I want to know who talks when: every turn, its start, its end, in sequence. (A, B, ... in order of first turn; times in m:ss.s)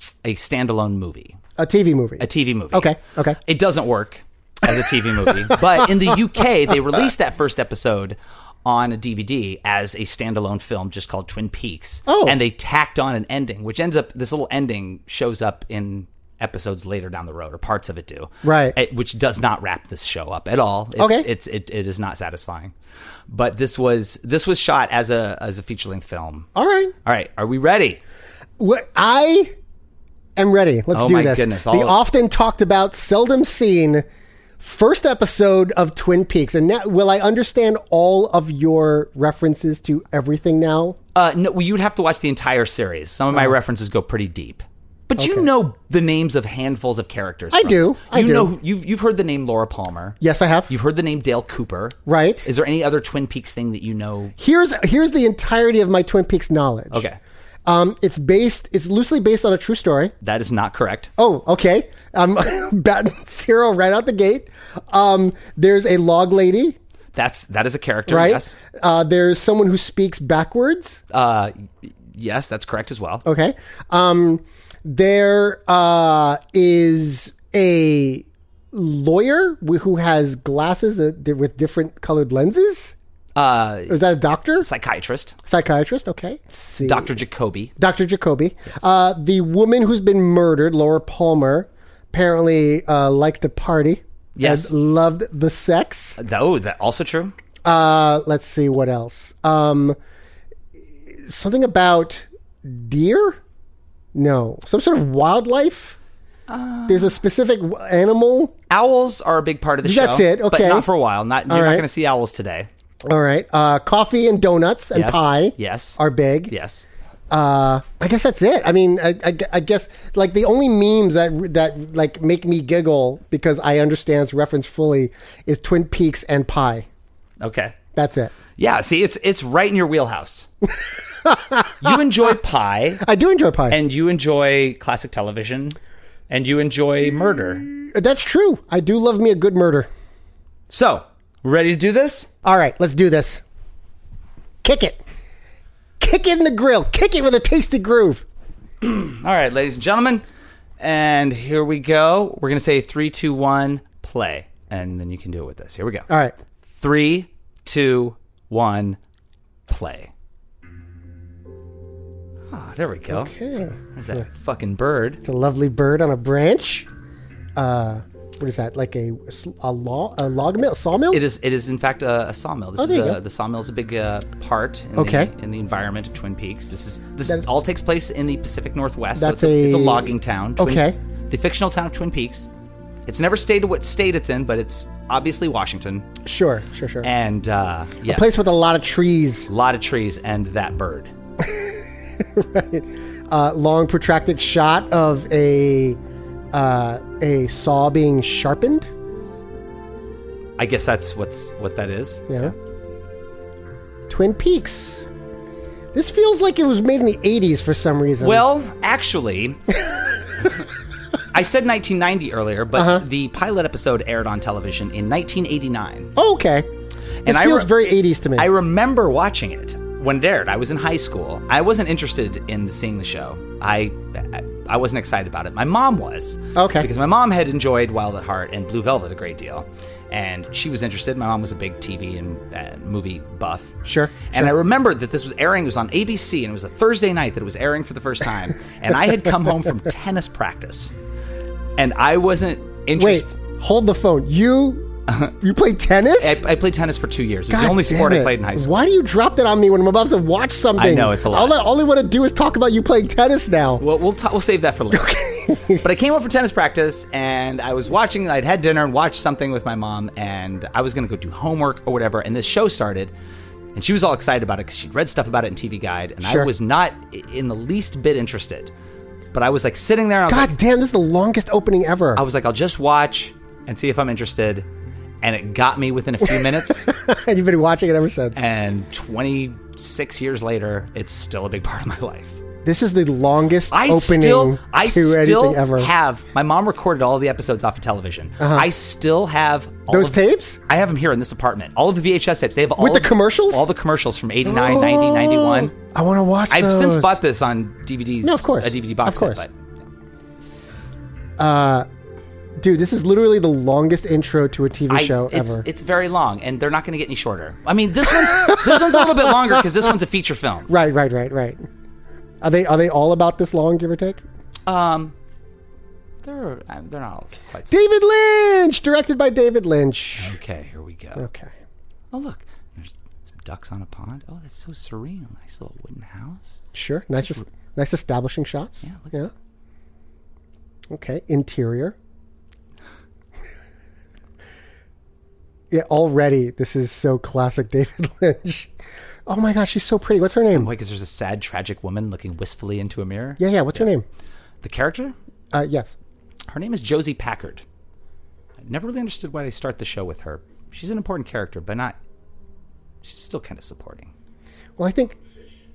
0:00.2-0:01.4 A
0:01.6-0:03.4 B
0:02.2-0:22.7 A
0:05.5-0:05.9 B
0:12.1-0:12.4 B
0:18.4-0:18.8 B
0:21.0-0:21.3 B
0:23.3-0:26.5 A
0:26.6-0:26.9 B
0:27.0-0:28.0 A
0:28.6-0:29.6 B
0:30.4-0:34.1 B
0:30.9-0:32.0 A
0:34.6-0:41.0 B
0:41.2-0:50.2 A
0:45.2-0:45.5 B
0:47.5-0:48.5 B
0:50.2-0:50.7 B
0:50.7-0:54.4 A
0:52.1-0:52.5 B
0:54.4-0:57.1 B
0:56.9-0:57.2 A
0:57.7-1:00.1 B
1:00.2-1:01.1 A
1:01.2-1:06.8 B
1:07.2-1:08.6 A
1:08.1-1:11.0 B
1:11.1-1:13.2 A
1:13.2-1:23.0 B
1:23.4-1:24.0 A
1:23.9-1:24.7 B
1:24.6-1:25.4 A
1:25.5-1:27.2 B
1:26.8-1:27.7 A
1:27.8-1:36.2 B
1:34.4-1:34.7 A
1:36.2-1:37.3 A
1:37.6-1:40.0 B
1:41.1-1:43.4 B
1:44.1-1:46.0 B
1:46.5-1:47.2 A
1:46.9-1:48.5 B
1:48.7-1:52.7 A
1:49.8-1:50.9 B
1:51.5-1:51.9 B
1:53.0-1:56.5 B
1:54.9-1:56.8 A
1:57.3-2:06.9 B
2:07.4-2:07.8 A
2:07.9-2:08.3 B
2:08.6-2:10.5 A
2:11.2-2:12.0 B
2:11.8-2:13.0 A
2:13.0-2:13.8 B
2:13.7-2:15.8 A
2:16.3-2:17.7 A
2:17.7-2:19.9 B
2:20.7-2:22.3 A
2:22.4-2:23.4 B
2:24.6-2:25.0 B
2:26.0-2:28.2 B
2:28.8-2:30.2 A
2:30.8-2:36.1 A
2:36.1-2:36.4 B
2:36.7-2:39.0 A
2:39.7-2:40.1 A
2:42.5-2:43.3 A
2:43.1-2:44.3 B
2:44.0-2:45.2 A
2:45.2-2:46.9 B
2:47.6-2:51.2 B
2:51.1-3:02.5 A
2:52.8-2:53.2 B
2:55.0-2:55.3 B
2:59.2-3:01.0 B
3:03.1-3:06.1 A
3:06.2-3:07.1 B
3:07.0-3:08.3 A
3:08.1-3:09.5 B
3:09.5-3:11.1 A
3:11.4-3:16.0 B
3:16.5-3:18.9 B
3:20.6-3:22.5 A
3:22.3-3:22.5 B
3:24.1-3:25.0 B
3:25.9-3:28.4 B
3:28.2-3:29.6 A
3:31.3-3:36.1 A
3:32.8-3:33.0 B
3:36.2-3:36.7 B
3:37.3-3:37.7 A
3:37.3-3:38.5 B
3:38.4-4:00.9 A
3:46.6-3:46.9 B
3:53.8-3:54.6 B
4:01.8-4:03.3 A
4:03.0-4:04.9 B
4:05.1-4:05.3 A
4:05.4-4:06.4 B
4:06.2-4:08.7 A
4:07.5-4:13.8 B
4:10.8-4:11.6 A
4:13.8-4:15.1 A
4:14.9-4:15.8 B
4:15.8-4:23.1 A
4:23.7-4:28.7 A
4:26.2-4:26.5 B
4:29.3-4:30.5 A
4:30.3-4:32.2 B
4:32.2-4:34.7 A
4:35.2-4:36.9 A
4:36.4-4:38.4 B
4:38.4-4:42.4 A
4:42.6-4:45.9 B
4:43.7-4:55.7 A
4:48.4-4:48.7 B
4:49.9-4:50.6 B
4:52.8-4:53.6 B
4:54.4-4:57.2 B
4:56.5-4:59.5 A
4:58.2-4:59.5 B
5:01.4-5:01.9 B
5:02.6-5:05.6 B
5:04.9-5:10.7 A
5:08.4-5:09.6 B
5:10.7-5:11.7 B
5:12.4-5:14.2 B
5:14.7-5:15.2 A
5:16.2-5:17.8 A
5:17.7-5:20.4 B
5:20.2-5:21.3 A
5:21.2-5:21.6 B
5:22.1-5:26.6 A
5:26.7-5:29.3 B
5:27.2-5:27.4 A
5:28.8-5:29.1 A
5:30.9-5:32.0 B
5:35.7-5:38.7 B
5:39.3-5:40.7 B
5:40.5-5:43.9 A
5:43.4-5:44.1 B
5:44.6-5:45.2 A
5:45.5-5:46.0 B
5:46.5-5:47.6 A
5:48.6-5:52.0 A
5:53.0-5:54.1 A
5:54.8-5:55.2 B